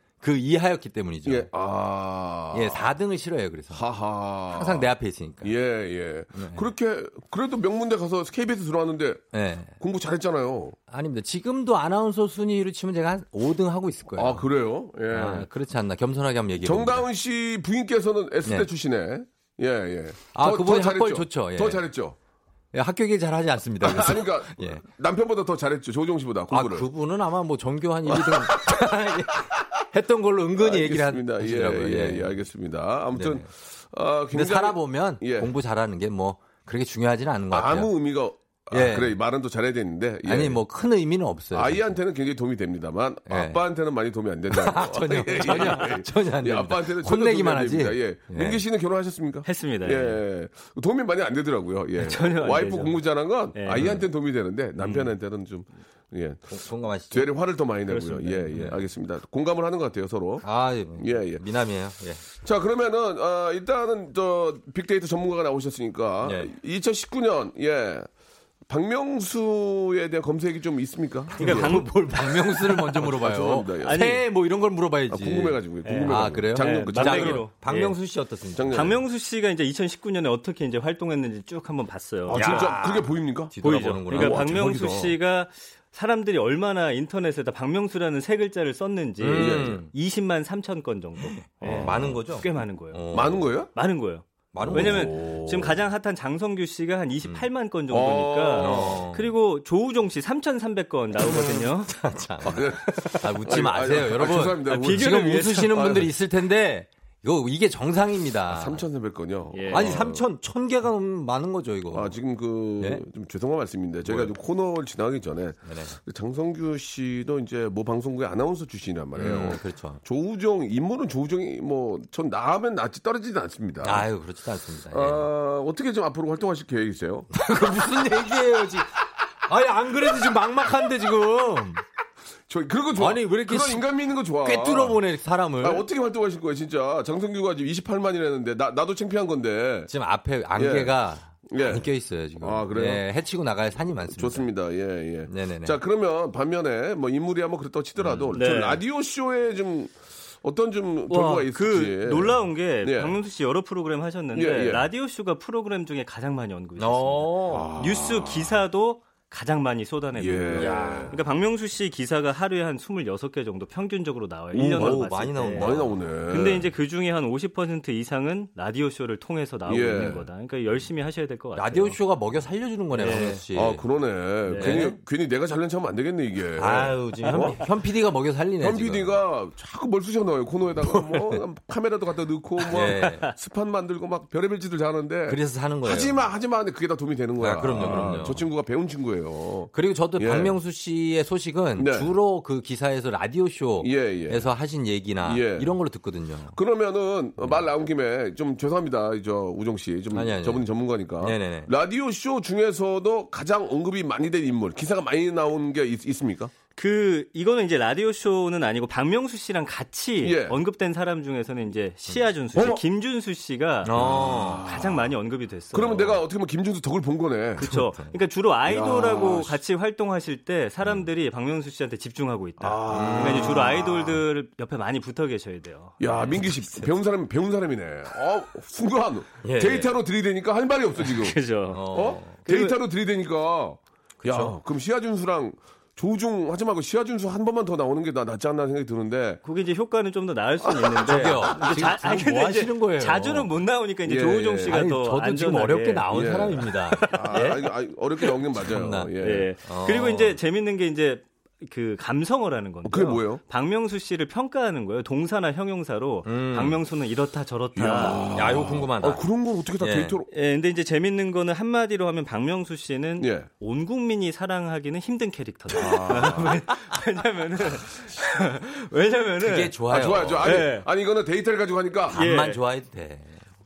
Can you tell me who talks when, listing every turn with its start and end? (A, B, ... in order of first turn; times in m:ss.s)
0:00.2-0:01.5 A
0:01.3-0:02.9 B
0:02.5-0:03.8 A
0:03.7-0:04.9 B
0:04.5-0:05.5 A
0:05.4-0:09.2 B
0:06.3-0:06.7 A
0:09.3-0:09.7 A
0:09.8-0:10.8 B
0:10.9-0:14.5 A
0:14.2-0:15.5 B
0:15.1-0:17.1 A
0:16.6-0:22.2 B
0:20.3-0:21.8 A
0:22.7-0:24.8 A
0:23.8-0:26.9 B
0:26.5-0:32.3 A
0:28.1-0:29.0 B
0:30.6-0:35.5 B
0:33.1-0:33.5 A
0:34.3-0:37.9 A
0:37.5-0:40.6 B
0:38.7-0:39.2 A
0:40.3-0:42.0 A
0:41.5-0:56.6 B
0:43.3-0:43.6 A
0:44.5-0:48.6 A
0:49.5-0:50.2 C
0:52.0-0:53.9 C
0:56.5-0:57.3 A
0:57.1-1:01.4 B
0:57.9-0:58.6 C
1:00.4-1:02.3 A
1:02.4-1:08.1 B
1:06.2-1:06.5 A
1:08.7-1:11.9 B
1:11.3-1:19.0 A
1:11.4-1:12.4 C
1:12.7-1:14.1 B
1:13.8-1:14.2 C
1:15.1-1:17.5 B
1:15.8-1:18.0 C
1:18.6-1:19.0 B
1:18.7-1:22.7 C
1:22.3-1:23.5 B
1:22.3-1:24.5 A
1:23.6-1:33.0 C
1:24.1-1:25.2 B
1:29.2-1:29.9 A
1:29.4-1:29.8 B
1:31.2-1:33.4 A
1:31.6-1:32.0 B
1:33.1-1:33.7 B
1:33.8-1:42.0 C
1:34.5-1:35.2 A
1:34.6-1:35.8 B
1:37.9-1:39.0 B
1:38.6-1:39.3 A
1:41.9-1:48.8 A
1:42.4-1:46.1 B
1:44.7-1:46.0 C
1:48.5-1:50.2 B
1:49.5-1:50.1 C
1:49.7-1:52.1 A
1:51.9-2:04.1 B
1:54.0-1:54.3 A
1:55.6-1:56.0 A
1:59.2-2:00.0 A
2:03.8-2:05.3 A
2:04.9-2:07.3 B
2:07.3-2:08.9 A
2:09.4-2:11.8 A
2:12.5-2:15.0 B
2:13.0-2:13.8 A
2:14.4-2:15.9 A
2:15.6-2:19.9 B
2:19.9-2:24.5 A
2:20.6-2:20.9 B
2:21.5-2:21.9 B
2:22.4-2:23.0 B
2:24.2-2:33.2 B
2:25.3-2:25.8 A
2:28.0-2:28.3 A
2:28.3-2:28.8 C
2:31.1-2:52.0 C
2:34.3-2:34.9 B
2:36.8-2:37.7 A
2:37.5-2:38.6 B
2:40.2-2:41.2 B
2:40.6-2:41.2 A
2:44.5-2:46.7 B
2:44.6-2:45.8 A
2:49.7-2:50.2 B
2:51.6-2:53.8 A
2:53.0-2:53.4 C
2:53.5-2:57.6 B
2:54.5-2:55.0 C
2:54.5-2:54.9 A
2:56.6-2:59.2 A
2:58.6-3:10.6 B
3:00.8-3:01.4 A
3:02.6-3:03.3 A
3:02.8-3:03.3 C
3:05.3-3:06.2 A
3:07.4-3:08.5 A
3:07.8-3:08.2 C
3:09.7-3:16.6 A
3:11.8-3:12.1 B
3:13.8-3:14.5 B
3:15.2-3:15.7 B
3:16.6-3:26.5 B
3:20.1-3:20.7 A
3:21.2-3:21.7 A
3:26.8-3:36.2 C
3:30.2-3:30.6 B
3:32.5-3:32.8 B
3:33.8-3:34.6 A
3:34.0-3:35.1 B
3:35.7-3:37.7 B
3:37.6-3:46.8 C
3:37.6-3:38.2 A
3:38.7-3:39.6 B
3:42.6-3:44.2 B
3:42.9-3:43.8 A
3:46.0-3:51.4 B
3:46.2-3:46.4 A
3:49.4-3:50.0 A
3:51.0-3:52.8 C
3:51.7-3:52.4 A
3:51.9-3:59.4 B
3:54.2-3:54.6 A
3:59.4-4:06.1 C
4:00.7-4:01.6 B
4:01.1-4:03.5 A
4:04.1-4:04.8 B
4:04.7-4:07.5 A
4:06.1-4:09.5 B
4:06.7-4:07.7 C
4:08.7-4:09.1 A
4:09.2-4:18.3 C
4:09.6-4:10.4 A
4:12.8-4:13.4 B
4:16.3-4:16.8 A
4:17.8-4:20.3 B
4:17.9-4:19.2 A
4:19.8-4:20.2 A
4:20.3-4:29.8 C
4:23.2-4:23.5 B
4:25.7-4:26.6 B
4:25.9-4:26.4 A
4:29.4-4:30.5 A
4:29.9-4:32.2 B
4:30.4-4:30.9 C
4:32.1-4:33.4 A
4:32.2-4:32.6 C